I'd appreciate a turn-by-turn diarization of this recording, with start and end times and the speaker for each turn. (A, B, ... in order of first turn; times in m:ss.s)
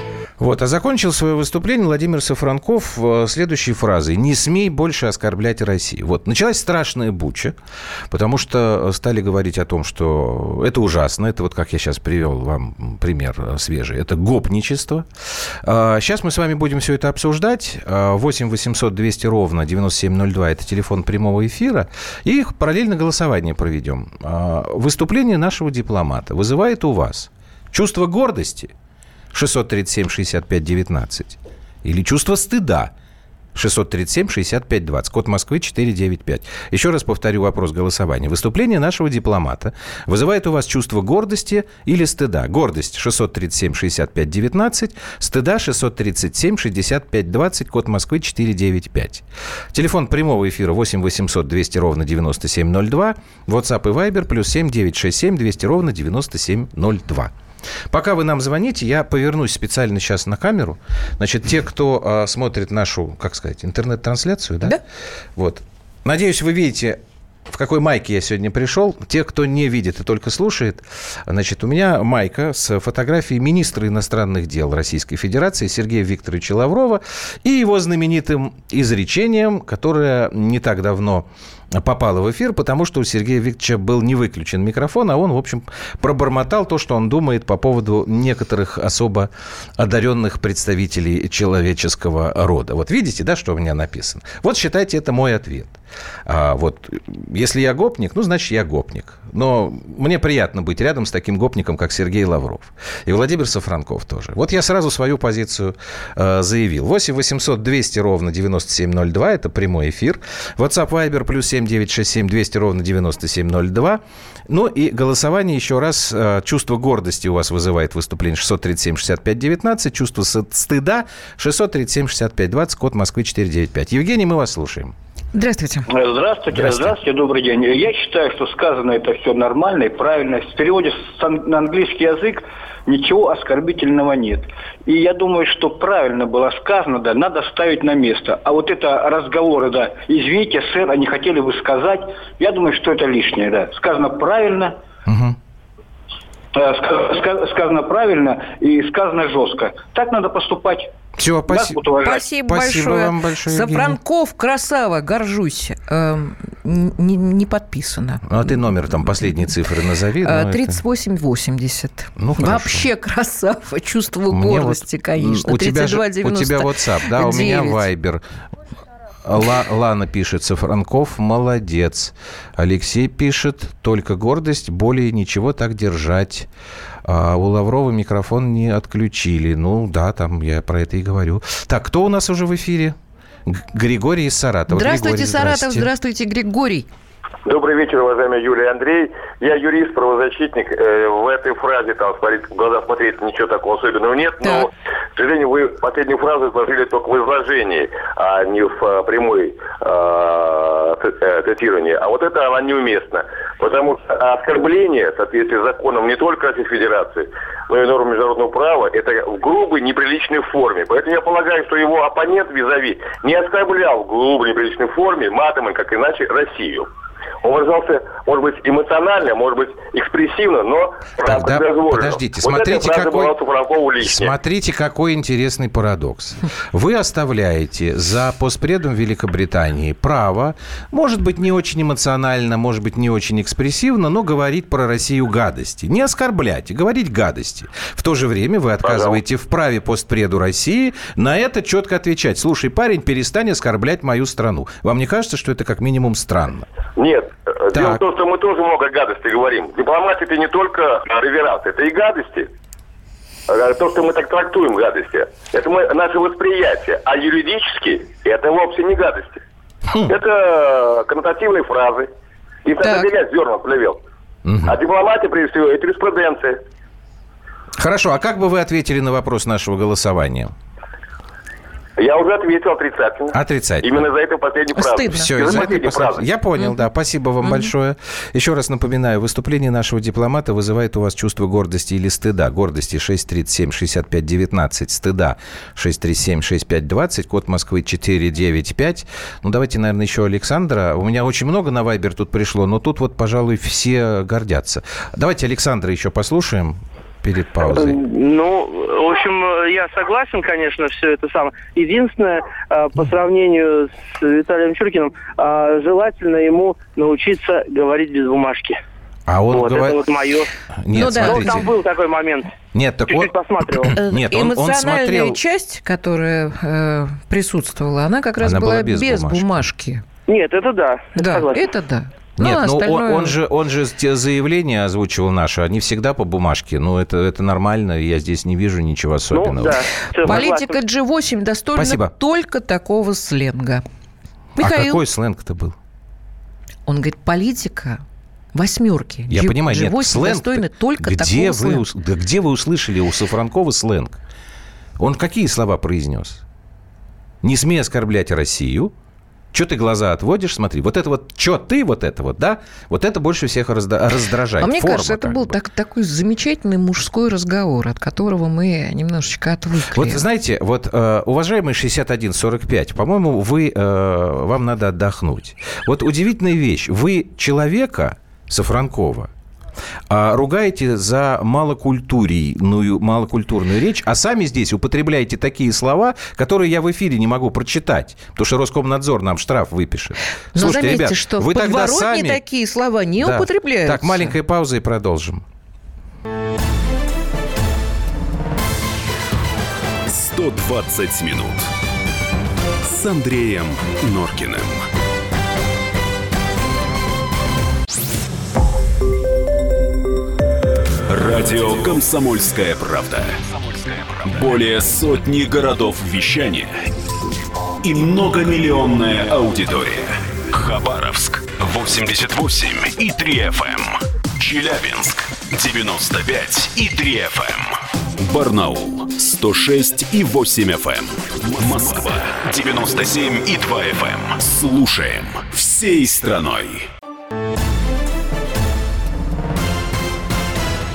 0:00.4-0:07.6 A
0:08.1-0:28.7 A
0:29.3-0:32.9 A
0:33.6-0:57.3 A
0:57.9-1:04.8 A
1:05.4-2:05.0 A
2:05.3-2:05.9 B
2:05.9-2:24.8 C
2:06.5-2:06.9 A
2:25.1-2:25.4 A
2:26.5-2:30.9 C
2:31.2-2:31.8 A
2:31.5-2:32.2 C
2:32.0-2:39.4 B
2:32.4-2:34.0 A
2:38.2-2:40.8 A
2:40.2-2:47.8 B
2:42.2-2:42.9 A
2:44.3-2:48.2 A
2:49.2-2:56.5 A
2:57.0-3:05.9 A
3:04.7-3:06.9 B
3:07.5-3:36.9 D
3:37.4-3:44.3 D
3:41.2-3:43.3 A
3:44.0-4:06.7 A
3:58.8-3:59.2 D
4:07.0-4:12.5 D
4:07.7-4:08.0 A
4:13.5-4:19.4 D
4:20.1-4:22.1 D
4:22.6-4:24.0 D
4:24.4-4:24.8 A
4:24.6-4:26.6 D
4:27.8-4:30.5 A
4:32.0-4:36.3 D
4:33.3-4:34.1 A
4:34.8-4:35.4 B
4:35.1-4:58.0 A
4:37.4-4:37.7 B
4:57.7-5:08.8 E
5:09.3-5:10.1 A
5:09.5-5:10.5 E
5:10.8-5:11.7 A
5:10.9-5:11.7 B
5:11.2-5:12.5 E
5:12.7-5:15.4 A
5:13.1-5:14.0 E
5:13.9-5:20.0 B
5:18.4-5:19.5 A
5:20.3-5:21.6 E
5:21.2-5:23.4 B
5:22.4-5:30.5 A
5:29.3-5:30.8 E
5:30.2-5:33.8 B
5:31.8-5:32.1 A
5:34.6-5:35.0 B
5:34.6-5:35.8 A
5:36.9-5:38.0 B
5:38.5-5:41.8 B
5:39.3-5:44.2 A
5:45.0-5:46.4 A
5:47.4-5:48.9 A
5:49.5-5:55.6 A
5:54.6-6:00.2 B
5:59.9-6:09.3 A
6:10.1-6:22.4 A
6:20.6-6:24.4 B
6:23.2-6:25.4 A
6:30.1-6:31.7 F
6:32.8-6:34.8 F
6:41.1-6:46.9 F
6:47.8-7:06.9 F